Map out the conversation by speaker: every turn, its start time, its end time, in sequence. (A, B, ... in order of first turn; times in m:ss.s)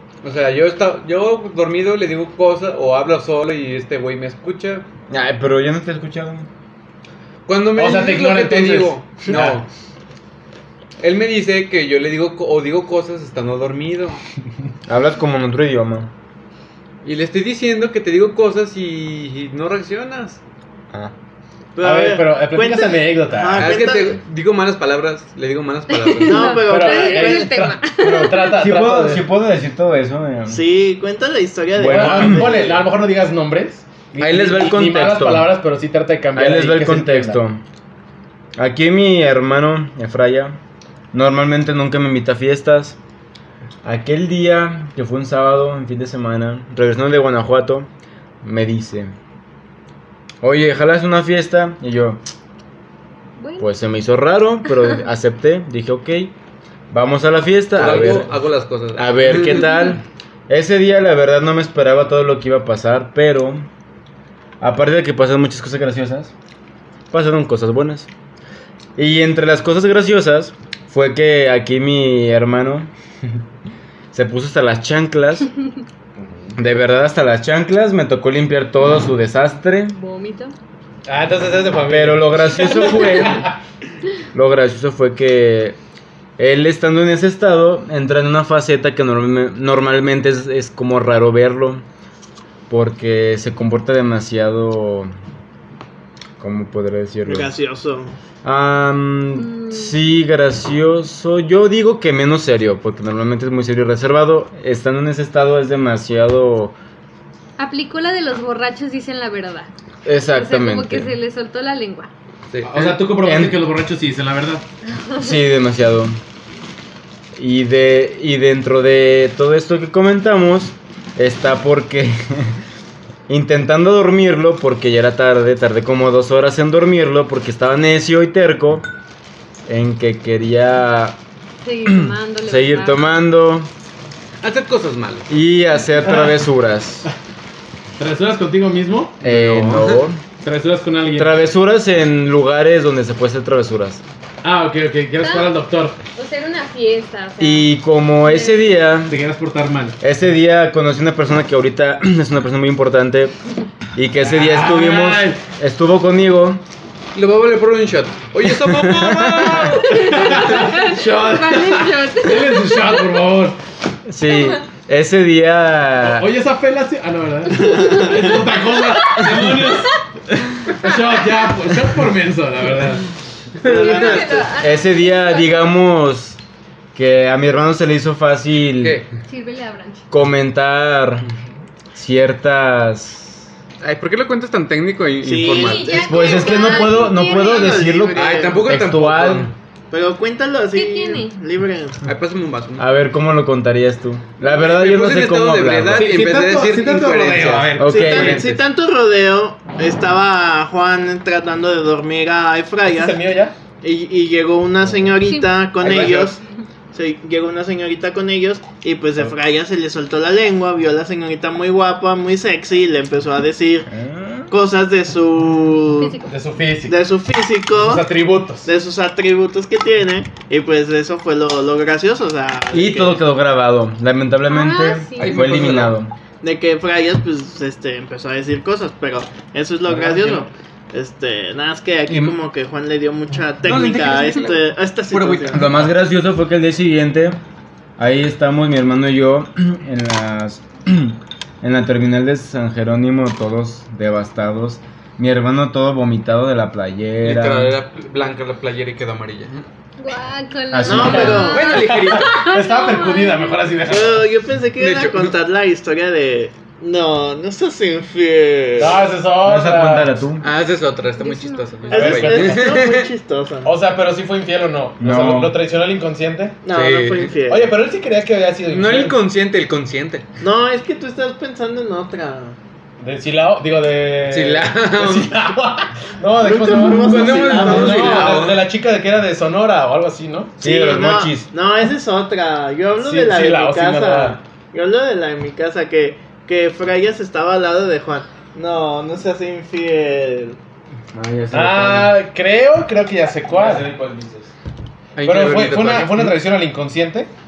0:00.2-0:04.9 A
0:05.1-0:06.5 B
0:07.5-0:09.7 A
0:07.8-0:09.6 C
0:11.0-0:14.2 A
0:14.9-0:16.1 B
0:17.0-0:20.4 A
0:21.8-0:24.2 D
0:21.8-0:23.8 C
0:23.6-0:26.6 A
0:25.9-0:28.5 E
0:26.2-0:27.6 D
0:26.6-0:29.3 C
0:28.2-0:30.6 B
0:30.5-0:32.8 D
0:31.8-0:32.5 B
0:31.8-0:37.4 C
0:34.2-0:35.5 B
0:36.4-0:37.6 B
0:38.6-0:40.6 B
0:41.1-0:43.0 B
0:43.8-0:47.9 B
0:48.4-0:49.2 B
0:50.4-0:52.2 B
0:53.4-0:53.7 E
0:53.6-0:56.3 B
0:56.9-0:58.4 B
0:57.8-0:59.8 A
0:58.9-1:03.7 B
0:59.5-0:59.9 E
1:04.6-1:06.3 B
1:07.1-1:08.1 B
1:09.0-1:12.9 B
1:14.1-1:15.5 B
1:16.2-1:16.6 C
1:16.6-1:20.0 B
1:19.9-1:20.6 E
1:21.1-1:23.5 C
1:21.9-1:23.5 B
1:22.7-1:23.3 E
1:24.3-1:25.8 B
1:26.4-1:31.8 B
1:32.7-1:35.1 B
1:36.4-1:37.5 B
1:37.3-1:38.2 D
1:38.4-1:46.8 B
1:39.4-1:40.0 E
1:47.6-1:49.7 E
1:50.0-1:51.1 B
1:50.3-1:52.1 E
1:52.5-1:52.9 A
1:52.6-1:54.6 C
1:53.0-1:53.6 B
1:54.9-1:55.4 E
1:55.2-1:56.2 B
1:57.4-2:02.6 B
2:03.3-2:08.9 B
2:09.7-2:11.2 B
2:11.6-2:13.2 E
2:11.9-2:13.7 B
2:14.4-2:15.3 A
2:15.3-2:17.1 B
2:16.0-2:16.4 C
2:18.0-2:19.2 C
2:19.2-2:20.2 B
2:19.2-2:20.0 A
2:20.4-2:21.4 C
2:21.2-2:24.0 B
2:24.4-2:26.0 C
2:25.2-2:25.5 E
2:26.2-2:28.8 E
2:27.4-2:29.2 B
2:29.1-2:30.0 C
2:30.0-2:33.4 B
2:34.0-2:36.6 B
2:34.2-2:35.4 C
2:37.2-2:40.0 A
2:38.5-2:39.8 B
2:39.5-2:43.2 E
2:39.9-2:43.6 C
2:44.1-2:46.3 B
2:44.3-2:44.6 E
2:46.0-2:53.1 C
2:47.6-2:49.6 E
2:53.6-2:54.5 D
2:53.6-2:55.7 E
2:53.8-2:54.2 A
2:54.6-2:56.4 B
2:56.9-2:59.0 B
2:58.8-2:59.1 A
2:59.3-3:00.0 E
3:00.1-3:01.3 B
3:01.9-3:03.5 B
3:03.8-3:06.0 A
3:05.2-3:08.7 D
3:05.4-3:07.9 E
3:05.9-3:09.5 B
3:08.1-3:09.5 A
3:09.9-3:12.0 D
3:10.7-3:11.4 E
3:12.0-3:12.9 A
3:12.8-3:16.1 B
3:14.4-3:18.6 A
3:15.9-3:18.5 C
3:17.8-3:18.5 B
3:17.9-3:23.2 D
3:22.9-3:23.6 C
3:23.8-3:26.4 D
3:25.2-3:25.6 E
3:25.8-3:26.3 A
3:26.9-3:33.9 D
3:33.9-3:34.5 B
3:34.5-3:36.2 D
3:36.0-3:36.3 E
3:36.3-3:37.0 C
3:36.9-3:38.1 D
3:37.7-3:38.7 C
3:38.6-3:43.2 D
3:42.7-3:46.1 B
3:44.5-3:45.6 E
3:45.2-3:46.0 A
3:46.4-3:55.7 D
3:49.9-3:50.4 A
3:52.1-3:52.4 B
3:53.6-3:55.9 A
3:55.5-3:57.4 B
3:58.0-4:07.8 B
4:07.2-4:09.7 A
4:10.0-4:13.7 E
4:10.7-4:11.5 B
4:10.8-4:11.7 D
4:11.0-4:12.5 A
4:11.1-4:14.3 C
4:13.9-4:19.1 D
4:14.8-4:15.3 A
4:18.8-4:20.2 C
4:19.4-4:20.5 B
4:20.4-4:23.1 A
4:21.2-4:22.2 E
4:21.9-4:23.7 D
4:21.9-4:22.8 C
4:23.6-4:26.6 C
4:25.0-4:25.6 B
4:26.6-4:27.7 D
4:26.7-4:27.4 A
4:27.5-4:29.2 C
4:28.7-4:30.2 A
4:30.4-4:32.6 D
4:33.0-4:40.6 C
4:34.3-4:35.3 A
4:36.4-4:38.4 D
4:36.8-4:38.6 A
4:40.6-4:41.5 B
4:40.6-4:50.6 D
4:43.0-4:44.4 C
4:51.1-4:52.2 B
4:51.5-4:53.9 C
4:53.5-4:54.5 B
4:55.2-4:56.4 A
4:55.2-4:57.3 C